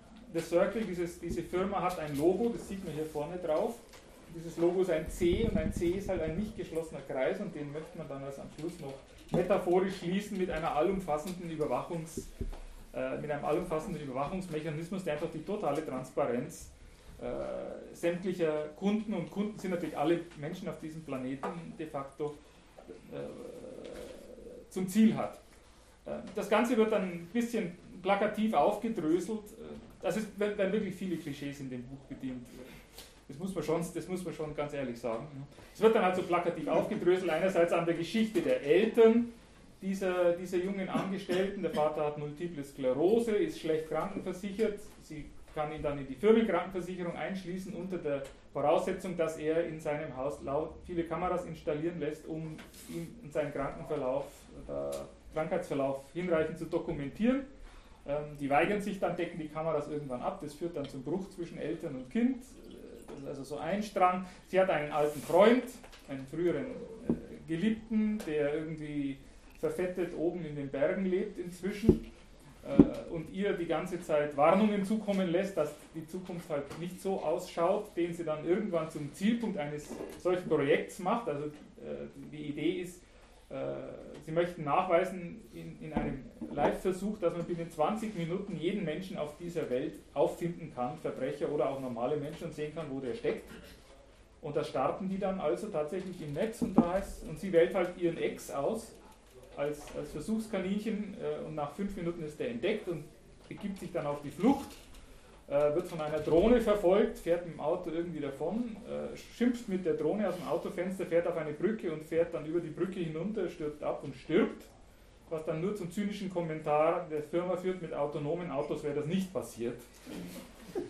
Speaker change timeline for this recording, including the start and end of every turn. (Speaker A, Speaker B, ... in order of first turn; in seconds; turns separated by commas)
Speaker A: 0.3-12.3, Speaker A: 12.9-22.4, Speaker A: 22.9-25.4, Speaker A: 26.0-32.8, Speaker A: 33.3-57.5, Speaker A: 58.0-72.0, Speaker A: 72.6-93.5, Speaker A: 94.4-98.9, Speaker A: 99.5-104.8, Speaker A: 105.5-114.7, Speaker A: 115.3-119.8